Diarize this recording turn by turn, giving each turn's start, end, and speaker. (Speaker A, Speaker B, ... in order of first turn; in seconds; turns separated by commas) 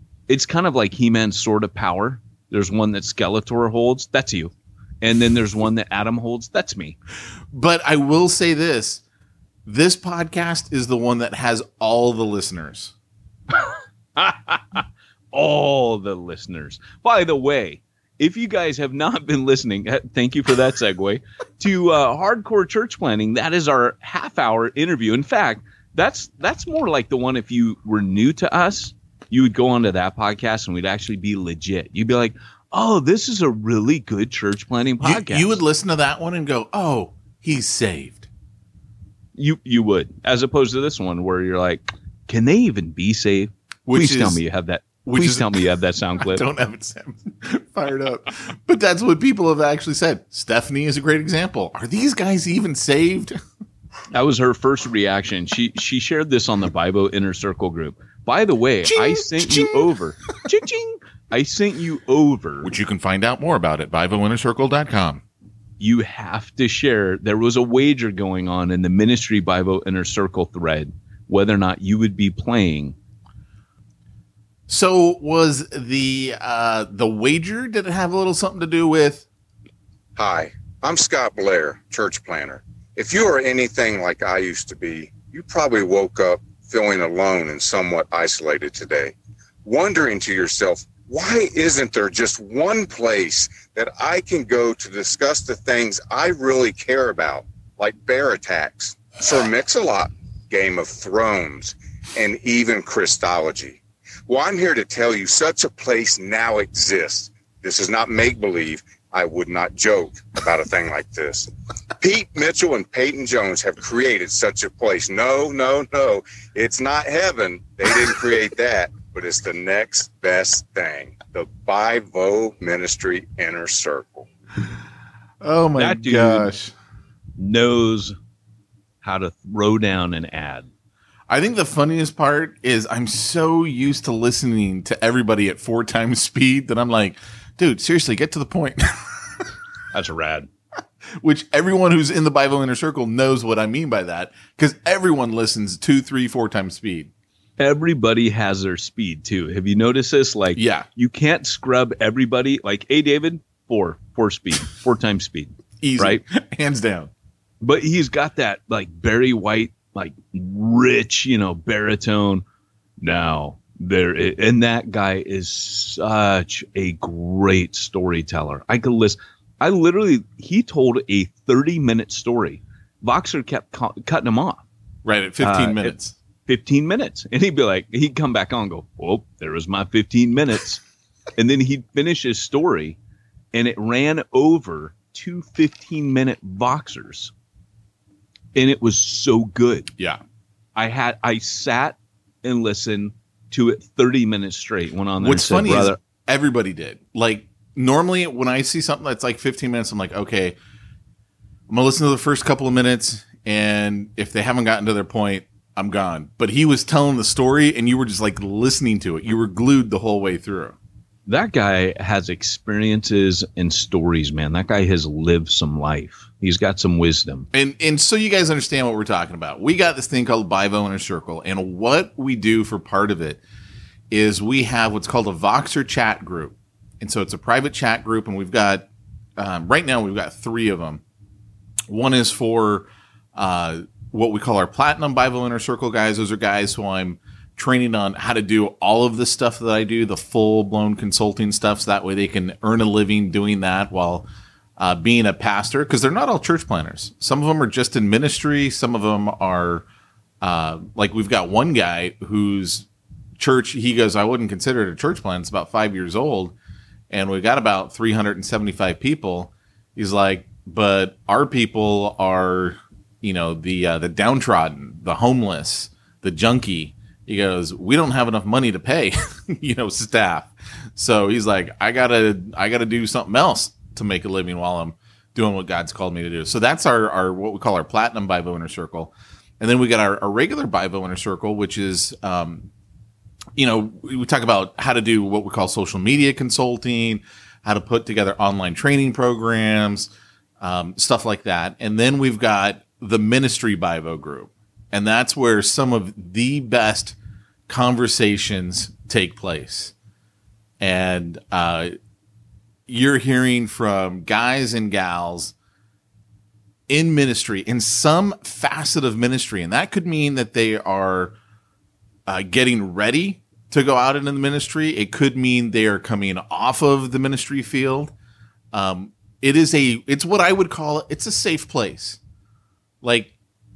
Speaker A: 0.3-7.0, Speaker B: 7.5-9.0, Speaker B: 9.7-12.9, Speaker A: 14.2-35.5, Speaker B: 35.0-38.3, Speaker A: 39.4-46.4, Speaker B: 43.9-44.4, Speaker B: 45.0-45.6, Speaker B: 46.2-53.4, Speaker A: 54.1-62.7, Speaker B: 58.9-59.9, Speaker B: 62.6-65.2, Speaker A: 65.8-72.9, Speaker B: 74.7-79.2, Speaker C: 80.2-124.3, Speaker B: 125.4-126.7, Speaker A: 125.8-126.5, Speaker A: 127.4-128.1, Speaker A: 129.0-130.7, Speaker B: 131.3-139.5, Speaker A: 139.9-140.5, Speaker B: 141.2-147.1, Speaker A: 147.6-156.2, Speaker B: 150.5-150.9, Speaker B: 155.8-157.1, Speaker A: 157.6-162.4, Speaker A: 163.0-174.6, Speaker B: 175.0-176.1, Speaker A: 175.4-175.9, Speaker A: 176.5-180.8, Speaker A: 181.3-183.0, Speaker A: 183.5-187.3, Speaker A: 188.5-189.9, Speaker A: 190.8-196.0, Speaker B: 195.2-200.6, Speaker B: 201.7-210.8, Speaker A: 211.3-217.5, Speaker B: 217.5-223.4, Speaker B: 224.1-231.0, Speaker B: 231.9-244.3, Speaker B: 244.8-249.8, Speaker B: 250.4-252.9, Speaker B: 253.4-256.5, Speaker B: 257.1-282.7, Speaker B: 283.6-297.1, Speaker B: 297.7-299.9, Speaker B: 300.8-301.9, Speaker B: 302.9-305.5, Speaker B: 306.9-311.3, Speaker B: 312.3-318.1, Speaker B: 318.7-322.2, Speaker B: 323.0-323.3